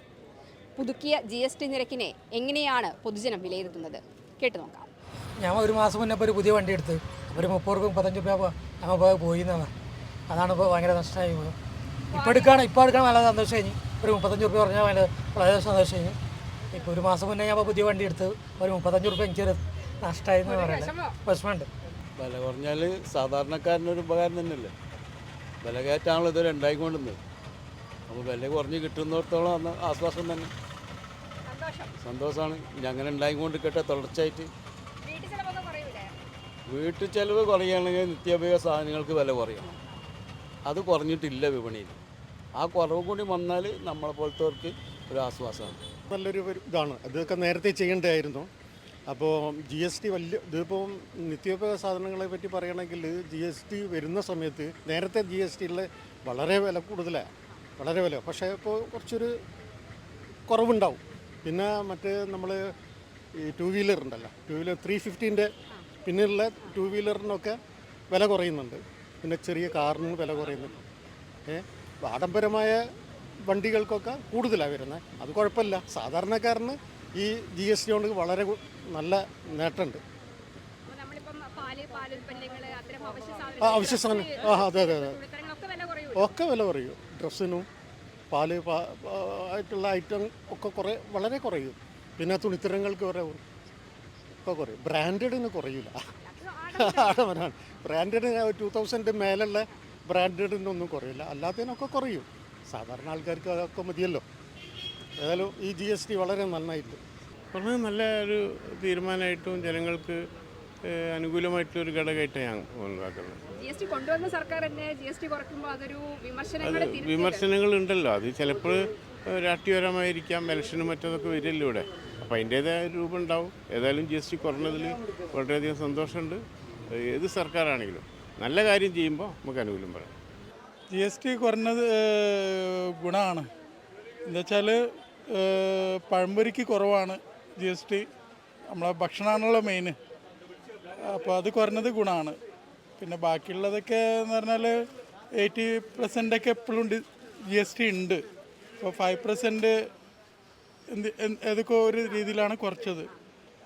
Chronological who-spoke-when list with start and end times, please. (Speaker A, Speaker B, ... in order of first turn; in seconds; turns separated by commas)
Speaker A: 0.8-4.9, Speaker B: 5.4-9.7, Speaker B: 10.3-11.6, Speaker A: 12.1-12.6, Speaker B: 12.1-16.2, Speaker B: 16.7-21.7, Speaker A: 20.4-21.2, Speaker C: 22.2-24.7, Speaker C: 25.6-27.2, Speaker C: 28.1-30.5, Speaker A: 31.4-31.9, Speaker C: 32.0-34.5, Speaker A: 35.0-36.1, Speaker C: 36.7-39.7, Speaker C: 40.6-42.0, Speaker C: 42.5-45.8, Speaker D: 46.1-48.5, Speaker D: 49.1-59.3, Speaker D: 60.5-62.7, Speaker D: 63.4-65.5, Speaker D: 66.0-67.6, Speaker D: 68.1-70.8, Speaker D: 71.5-72.8, Speaker D: 73.4-80.0, Speaker A: 80.9-86.3, Speaker D: 83.6-85.2, Speaker D: 86.1-87.7, Speaker D: 88.3-93.4, Speaker D: 94.4-96.0, Speaker A: 96.2-97.3, Speaker D: 96.7-104.2, Speaker D: 105.2-107.0, Speaker E: 107.5-110.2, Speaker E: 110.8-113.4, Speaker A: 113.6-117.5, Speaker E: 116.6-130.1, Speaker F: 130.9-133.5, Speaker F: 134.2-138.1, Speaker F: 138.7-140.0, Speaker F: 141.0-142.4, Speaker F: 143.0-148.2, Speaker F: 148.8-149.9, Speaker F: 150.9-153.1